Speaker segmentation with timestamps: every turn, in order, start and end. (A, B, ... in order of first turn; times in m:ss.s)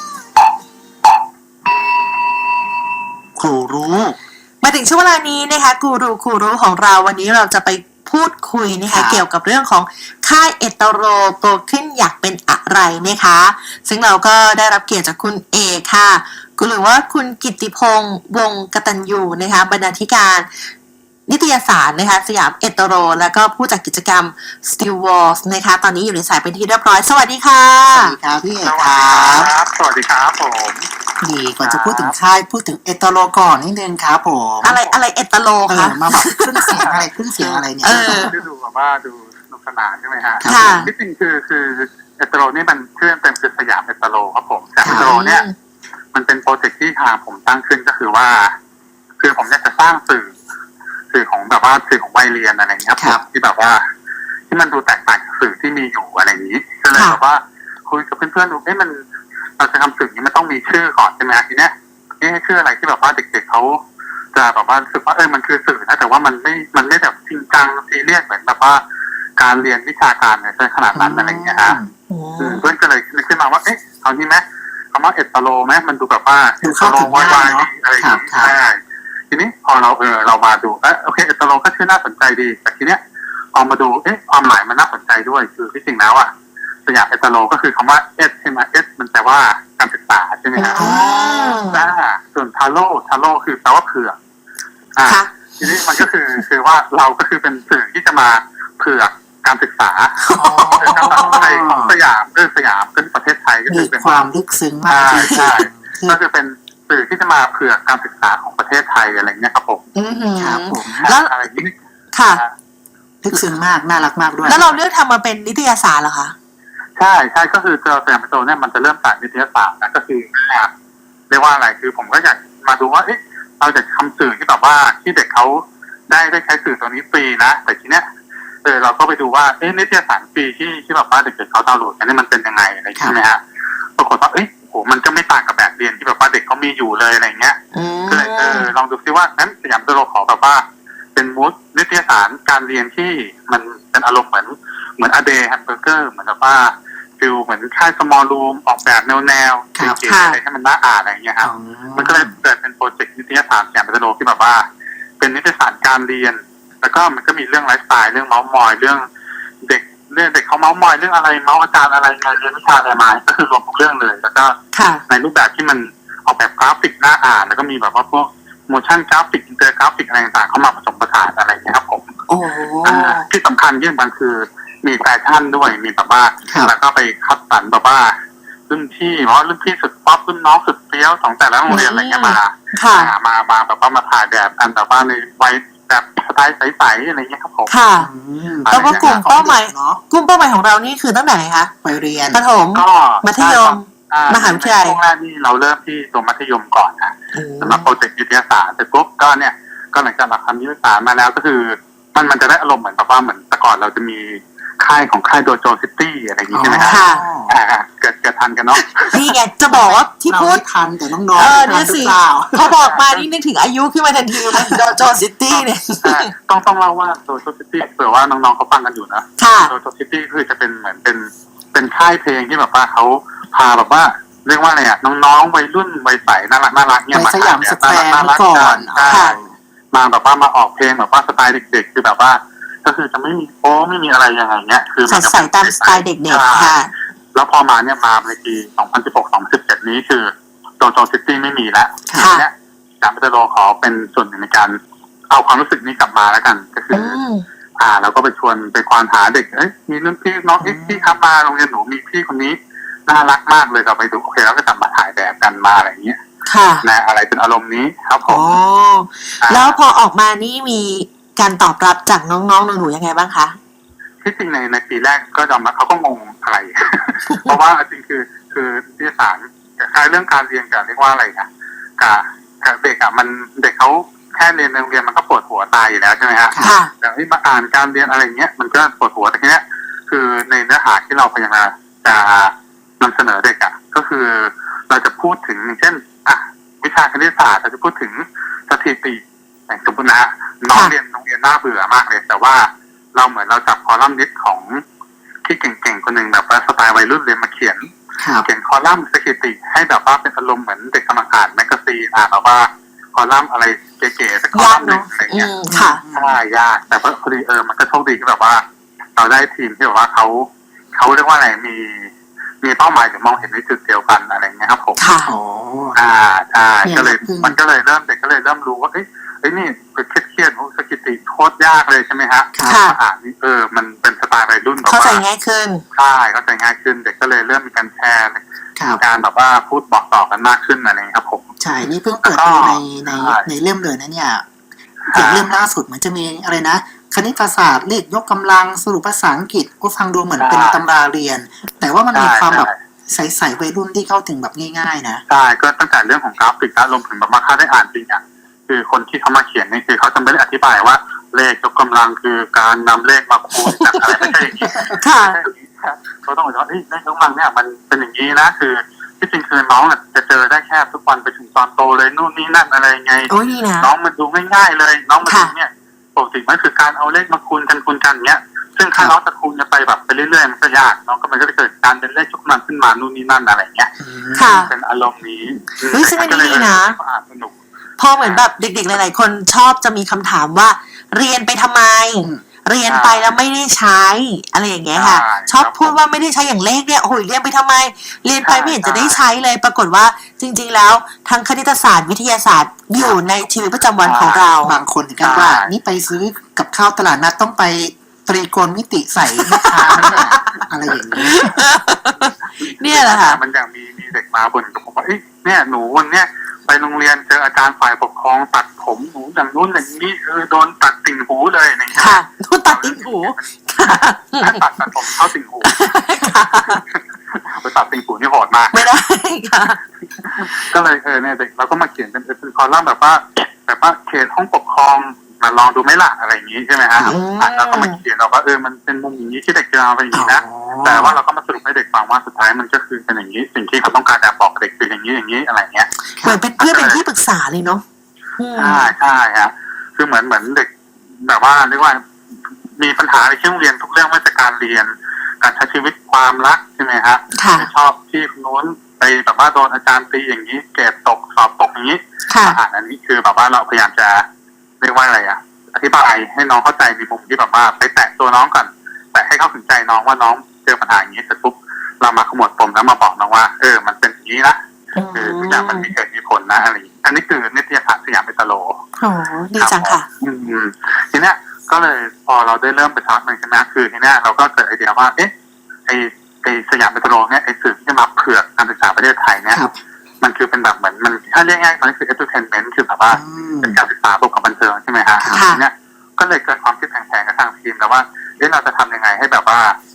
0:03.4-0:04.2 A
0:04.6-0:20.7 B
0:08.9-0:09.2 A
0:21.3-0:28.2 B
0:27.9-0:29.5 A
0:28.6-0:30.9 C
0:31.2-0:34.8 A
0:31.6-0:32.1 C
0:34.6-0:36.8 B
0:34.6-0:35.0 C
0:35.7-0:38.3 A
0:36.7-0:37.0 C
0:37.4-0:38.3 B
0:37.8-0:45.4 C
0:40.4-0:40.9 A
0:40.4-0:40.9 B
0:44.8-0:45.1 A
0:44.8-0:45.5 B
0:46.1-0:48.5 C
0:49.2-0:50.3 C
0:51.1-0:53.8 C
0:53.0-0:53.2 A
0:54.5-0:59.0 C
0:59.6-1:03.8 C
1:04.3-1:08.8 C
1:09.4-1:11.8 C
1:10.9-1:11.9 A
1:12.1-1:12.6 B
1:12.4-1:18.8 C
1:16.6-1:18.5 A
1:19.3-1:23.0 C
1:23.5-1:26.3 C
1:26.8-1:31.0 C
1:30.6-1:31.9 B
1:30.6-1:31.6 A
1:31.7-1:34.2 C
1:35.0-1:44.2 C
1:35.0-1:35.3 B
1:40.2-1:41.5 B
1:40.3-1:42.0 A
1:43.7-1:46.2 A
1:44.9-1:49.8 C
1:45.1-1:45.5 B
1:49.9-1:52.4 B
1:50.4-1:51.1 A
1:51.0-1:52.5 C
1:53.2-1:54.8 A
1:54.4-1:56.3 B
1:57.0-2:00.7 C
2:01.3-2:08.1 C
2:08.6-2:13.4 C
2:14.0-2:34.6 C
2:17.7-2:18.7 B
2:29.8-2:30.0 A
2:30.0-2:30.4 B
2:31.4-2:32.3 A
2:35.2-2:39.0 C
2:39.6-2:44.6 C
2:44.7-2:45.0 B
2:45.1-2:52.1 C
2:52.3-2:53.2 B
2:52.8-2:58.1 C
2:56.5-2:56.7 A
2:58.7-3:07.7 C
3:01.7-3:03.1 B
3:07.7-3:08.1 B
3:08.0-3:10.0 A
3:08.6-3:09.2 C
3:08.7-3:11.7 B
3:11.8-3:12.4 A
3:12.3-3:15.0 B
3:12.7-3:29.3 C
3:17.3-3:17.9 B
3:26.5-3:27.5 A
3:26.8-3:27.3 B
3:29.1-3:30.6 B
3:29.7-3:32.8 A
3:31.3-3:36.3 B
3:32.8-3:33.2 C
3:34.5-3:34.8 A
3:35.5-3:56.7 C
3:39.4-3:39.7 B
3:47.1-3:49.5 A
3:49.1-3:49.3 B
3:55.1-3:56.9 B
3:57.3-4:04.8 C
4:02.1-4:02.3 A
4:02.1-4:02.4 B
4:05.3-4:07.2 C
4:06.9-4:07.4 B
4:07.8-4:16.2 C
4:10.6-4:11.2 A
4:16.4-4:16.8 B
4:16.8-4:18.6 C
4:18.3-4:23.6 B
4:19.4-4:19.8 C
4:24.2-4:54.8 C
4:27.3-4:27.6 B
4:36.6-4:36.9 B
4:55.4-4:57.9 C
4:58.2-4:58.5 A
4:58.4-5:05.5 C
5:04.5-5:06.0 B
5:05.7-5:06.4 A
5:06.1-5:08.6 C
5:09.2-5:15.0 C
5:15.0-5:15.3 B
5:15.2-5:16.0 A
5:15.9-5:25.2 C
5:16.8-5:17.6 A
5:22.5-5:22.8 A
5:22.6-5:23.0 B
5:24.8-5:25.8 B
5:25.9-5:28.4 C
5:29.0-5:31.5 C
5:31.6-5:34.4 A
5:32.2-5:33.5 C
5:35.1-5:35.4 C
5:35.1-5:45.2 A
5:40.4-5:40.8 C
5:42.1-5:42.8 C
5:45.3-6:13.9 C
5:54.6-5:55.0 A
5:55.0-5:55.4 B
6:03.3-6:03.9 B
6:05.2-6:05.5 B
6:14.0-6:14.7 A
6:14.3-6:14.7 B
6:14.5-6:17.6 C
6:15.9-6:17.0 B
6:18.0-6:34.8 B
6:18.2-6:18.5 C
6:22.8-6:23.3 C
6:24.9-6:26.0 C
6:28.4-6:29.2 C
6:34.0-6:34.4 C
6:34.6-6:41.6 A
6:35.2-6:35.7 C
6:39.3-6:40.6 B
6:41.1-6:43.4 B
6:42.1-6:55.9 C
6:52.0-6:54.6 B
6:55.6-6:56.8 B
6:56.6-6:58.9 C
6:58.7-6:59.8 B
7:00.2-7:15.9 C
7:07.0-7:08.0 B
7:10.1-7:11.2 A
7:16.2-7:17.8 B
7:16.6-7:17.0 C
7:18.4-7:18.9 B
7:18.5-7:22.0 C
7:22.8-7:34.2 C
7:27.3-7:27.7 B
7:32.3-7:32.6 B
7:34.8-7:44.6 C
7:44.9-7:45.9 B
7:45.1-7:48.8 C
7:49.0-7:50.1 B
7:49.5-7:55.3 C
7:55.9-7:59.6 C
8:00.2-8:09.8 C
8:03.1-8:03.8 A
8:05.2-8:05.4 A
8:05.3-8:05.6 B